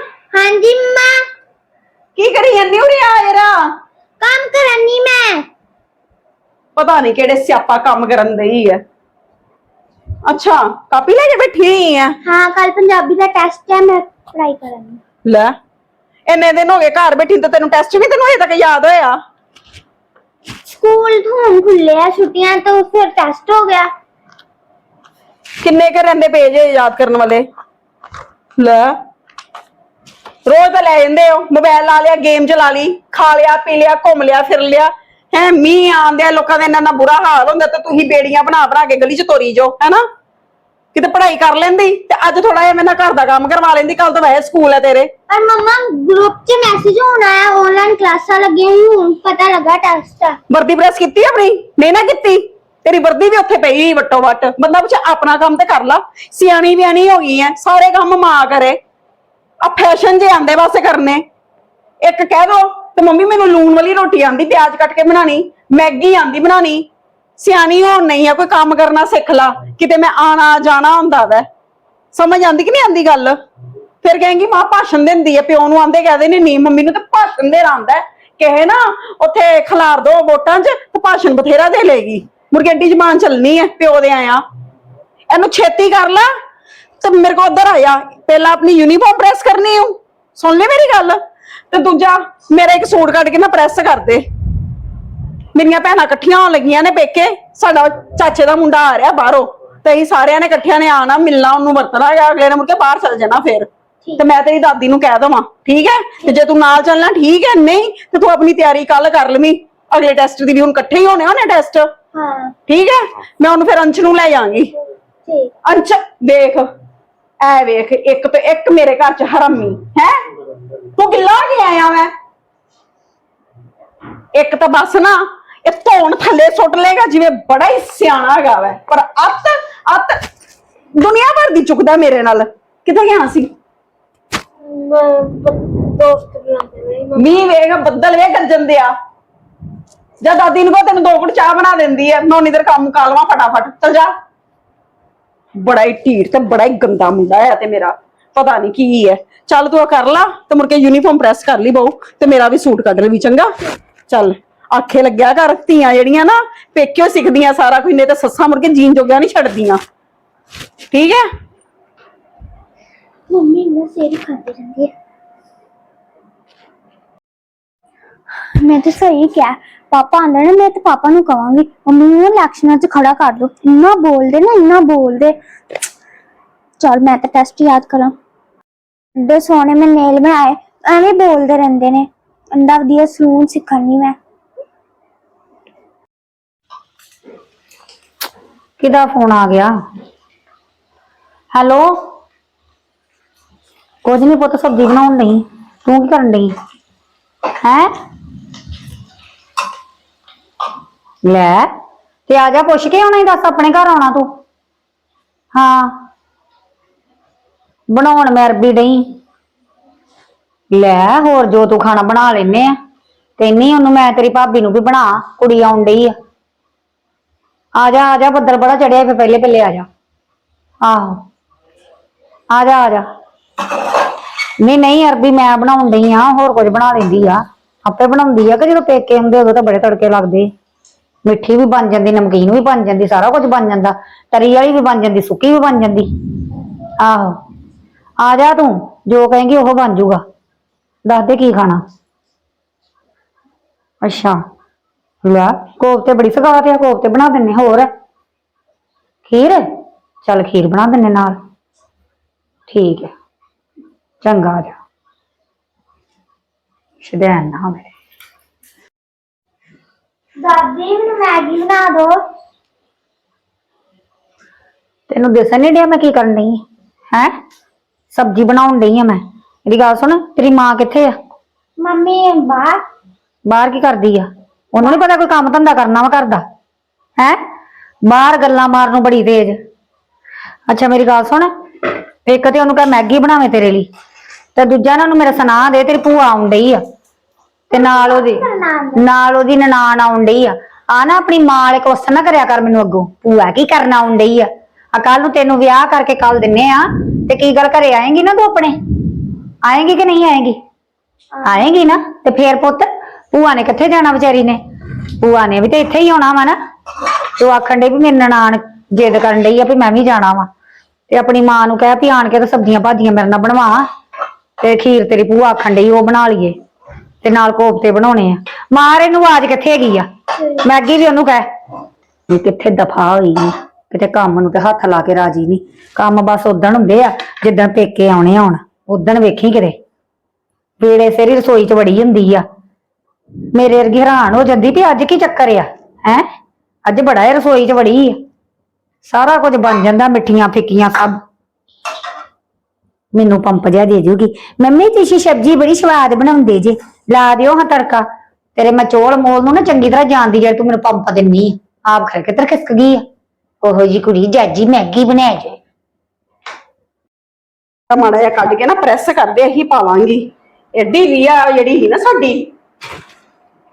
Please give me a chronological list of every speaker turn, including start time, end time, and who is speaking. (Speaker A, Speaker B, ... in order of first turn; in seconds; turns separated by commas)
Speaker A: 0.3-1.1, Speaker B: 2.1-3.6, Speaker A: 4.2-5.4, Speaker B: 6.8-8.8, Speaker B: 10.2-12.1, Speaker A: 12.2-15.0, Speaker B: 16.3-19.1, Speaker A: 20.7-23.9, Speaker B: 25.6-27.4, Speaker B: 28.6-28.9, Speaker B: 30.4-40.0, Speaker B: 40.9-45.1, Speaker A: 45.3-50.4, Speaker B: 50.5-58.8, Speaker B: 59.6-61.2, Speaker B: 62.0-66.8, Speaker B: 67.4-71.4, Speaker B: 72.1-73.4, Speaker B: 74.0-84.4, Speaker B: 85.3-86.3, Speaker B: 87.0-91.2, Speaker B: 91.7-94.2, Speaker B: 95.5-111.9, Speaker A: 112.1-112.5, Speaker B: 112.7-114.7, Speaker A: 115.2-115.5, Speaker B: 115.6-116.7, Speaker B: 117.4-120.2, Speaker B: 120.9-122.1, Speaker B: 124.3-130.2, Speaker B: 130.9-133.5, Speaker B: 137.1-138.9, Speaker B: 140.2-144.1, Speaker B: 145.6-153.5, Speaker B: 154.1-159.8, Speaker B: 160.9-161.2, Speaker A: 163.3-164.9, Speaker A: 168.6-175.3, Speaker A: 176.8-178.1, Speaker A: 179.2-184.2, Speaker C: 188.8-189.7, Speaker C: 191.5-191.9, Speaker C: 194.0-196.5, Speaker C: 197.6-197.9, Speaker C: 201.2-201.7, Speaker C: 202.3-204.3, Speaker C: 205.5-205.9, Speaker C: 207.9-209.0, Speaker C: 210.7-212.7, Speaker C: 213.4-216.1, Speaker C: 217.8-219.8, Speaker C: 220.8-221.2, Speaker C: 222.5-223.0, Speaker C: 224.6-230.5, Speaker C: 231.2-236.1, Speaker C: 237.0-237.4, Speaker C: 238.2-240.2, Speaker C: 241.0-241.8, Speaker C: 244.0-244.4, Speaker C: 245.2-247.9, Speaker C: 249.3-249.6, Speaker C: 250.2-251.3, Speaker C: 252.7-253.1, Speaker C: 254.2-254.8, Speaker C: 257.0-257.9, Speaker A: 260.4-262.1, Speaker C: 265.1-266.6, Speaker C: 268.1-271.1, Speaker A: 271.8-272.8, Speaker C: 273.5-276.4, Speaker C: 278.1-279.6, Speaker C: 280.7-281.5, Speaker C: 282.2-283.9, Speaker C: 284.6-286.8, Speaker A: 287.7-289.1, Speaker C: 287.7-288.4, Speaker C: 288.9-298.7, Speaker C: 299.6-300.6, Speaker C: 301.4-304.6, Speaker C: 305.2-306.6, Speaker C: 307.4-310.5, Speaker C: 311.1-313.8, Speaker C: 314.6-316.5, Speaker C: 317.2-321.5, Speaker C: 322.3-329.7, Speaker C: 330.8-332.4, Speaker C: 333.5-336.2, Speaker C: 336.9-338.2, Speaker C: 339.1-341.2, Speaker C: 343.1-348.0, Speaker C: 348.6-353.0, Speaker C: 353.6-355.6, Speaker B: 357.9-362.5